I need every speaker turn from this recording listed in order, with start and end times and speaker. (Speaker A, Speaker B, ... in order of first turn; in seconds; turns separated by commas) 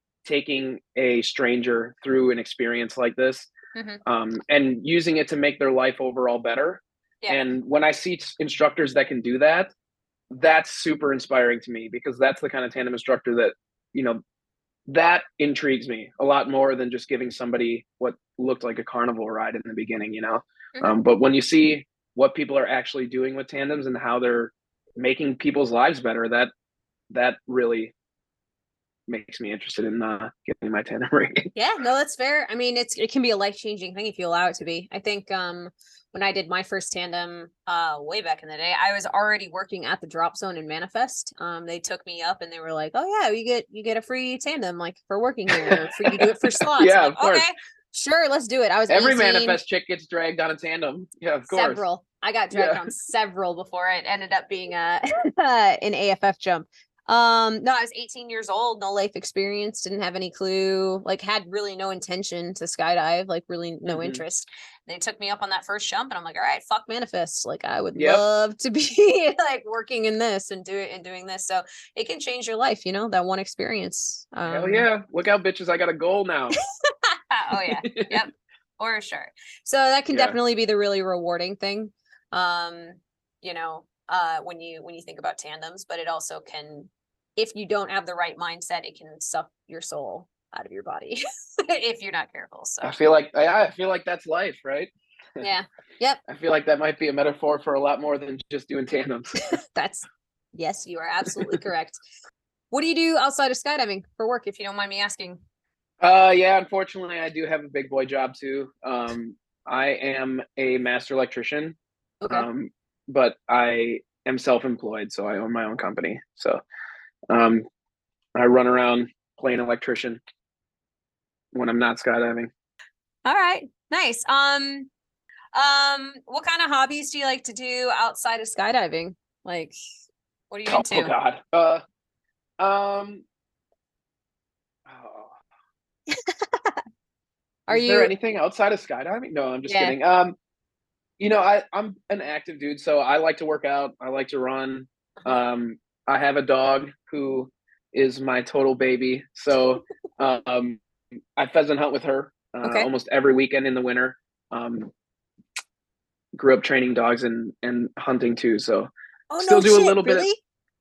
Speaker A: 0.2-3.5, Speaker B: 3.7-4.0, Speaker A: 4.0-9.7, Speaker A: 10.3-14.2, Speaker A: 14.9-26.5, Speaker A: 27.1-27.9, Speaker A: 29.1-31.5, Speaker B: 31.6-49.6, Speaker A: 45.5-47.4, Speaker A: 48.9-51.8, Speaker B: 51.5-74.9, Speaker A: 52.5-52.9, Speaker A: 63.9-64.2, Speaker A: 68.0-68.2, Speaker A: 74.5-76.6, Speaker B: 77.1-92.9, Speaker A: 77.6-78.2, Speaker A: 92.8-95.5, Speaker B: 95.4-96.2, Speaker A: 96.3-99.3, Speaker B: 99.4-102.0, Speaker B: 102.7-105.4, Speaker A: 106.0-111.8, Speaker B: 112.2-112.5, Speaker A: 112.3-116.6, Speaker A: 117.3-117.7, Speaker A: 118.3-120.2, Speaker A: 121.5-122.5, Speaker B: 123.2-124.9, Speaker B: 125.5-129.8, Speaker B: 130.5-131.1, Speaker A: 130.7-131.8, Speaker A: 132.6-133.2, Speaker A: 134.9-135.3, Speaker B: 136.1-136.8, Speaker A: 137.7-140.4, Speaker B: 137.7-138.1, Speaker B: 139.7-140.0, Speaker A: 141.2-150.8, Speaker A: 151.4-154.9, Speaker B: 152.6-152.9, Speaker A: 156.3-158.9, Speaker B: 159.3-160.4, Speaker A: 159.4-160.3